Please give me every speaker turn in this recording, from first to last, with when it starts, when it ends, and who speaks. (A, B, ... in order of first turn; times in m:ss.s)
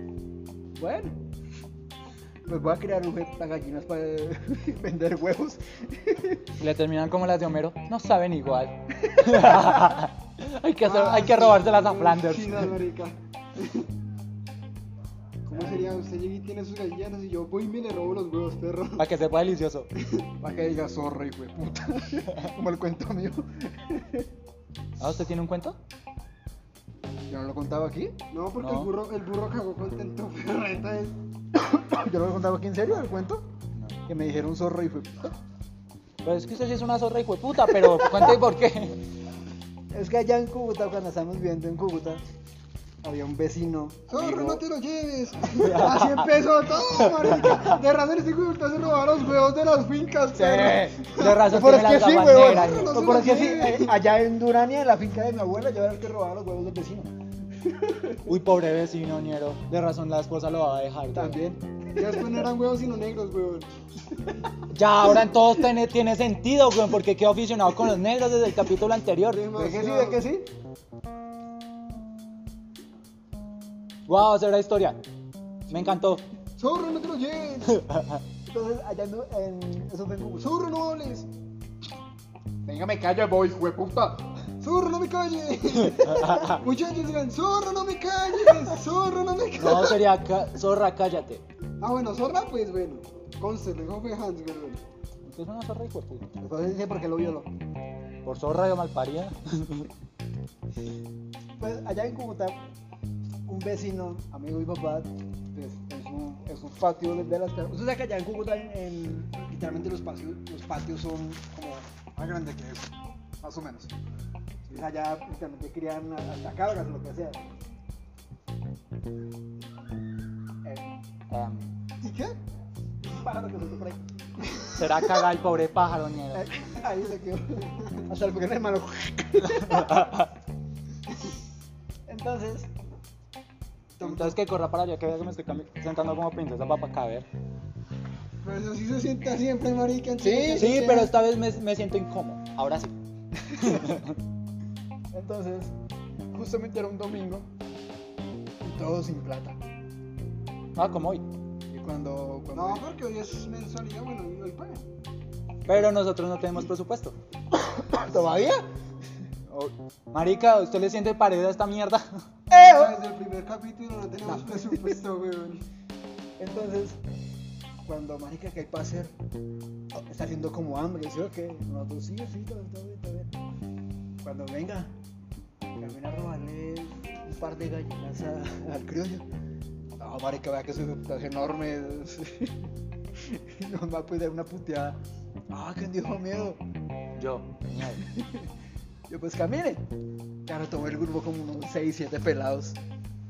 0:00.7-0:01.2 A
0:02.4-0:06.5 A
0:06.6-0:12.7 B
0:09.0-0:10.0 A
0:10.8-0:13.9 C
0:15.5-0:19.0 C
0:15.5-0:15.9 A
0:19.0-0:19.9 B
0:20.0-0:20.2 C
0:20.4-0:24.3 A
0:25.0-0:25.8 B
0:27.3-0:28.2 A
0:28.3-0:31.1 C
0:28.6-0:28.9 B
0:31.5-0:33.4 A
0:34.0-0:35.3 A
0:36.2-0:39.0 B
0:37.7-0:38.4 A
0:39.9-0:42.2 A
0:43.0-0:44.6 A
0:44.1-0:51.4 C
0:45.6-0:46.2 B
0:47.1-0:47.8 B
0:50.3-0:58.2 A
0:51.1-0:53.7 B
0:52.2-0:53.9 C
0:58.2-1:01.4 B
1:01.1-1:02.4 A
1:01.9-1:03.7 C
1:04.7-1:09.4 B
1:09.3-1:10.2 C
1:09.5-1:10.5 A
1:14.1-1:15.0 B
1:15.7-1:16.2 B
1:16.6-1:17.8 C
1:17.7-1:18.2 B
1:18.4-1:20.6 A
1:20.4-1:21.3 C
1:22.6-1:24.4 A
1:24.6-1:30.0 C
1:25.8-1:26.6 B
1:29.6-1:31.4 B
1:31.8-1:34.8 C
1:35.2-1:36.3 B
1:36.4-1:37.5 A
1:38.2-1:39.9 B
1:41.6-1:42.6 A
1:43.4-1:53.9 A
1:54.7-1:57.4 A
2:00.6-2:01.0 A
2:01.3-2:01.7 B
2:02.0-2:02.4 C
2:03.0-2:04.0 A
2:04.7-2:06.5 B
2:06.3-2:10.1 A
2:09.4-2:10.3 B
2:12.1-2:12.7 A
2:14.0-2:17.3 B
2:18.4-2:21.0 C
2:20.2-2:21.1 A
2:20.6-2:22.9 B
2:23.5-2:23.8 A
2:23.6-2:24.2 B
2:25.1-2:25.7 A
2:26.3-2:27.5 A
2:28.6-2:29.6 A
2:30.8-2:31.2 B
2:31.7-2:32.8 A
2:32.5-2:34.9 C
2:35.6-2:37.1 B
2:37.5-2:38.6 A
2:39.5-2:42.2 B
2:42.5-2:43.0 A
2:42.7-2:45.6 C
2:44.2-2:45.0 A
2:46.4-2:47.0 A
2:47.8-2:49.1 A
2:49.9-2:53.3 A
2:54.2-2:54.9 A
2:55.7-2:59.2 A
3:00.0-3:02.6 A
3:03.1-3:06.6 A
3:07.2-3:08.0 B
3:07.8-3:08.5 A
3:09.1-3:09.8 A
3:10.4-3:12.8 A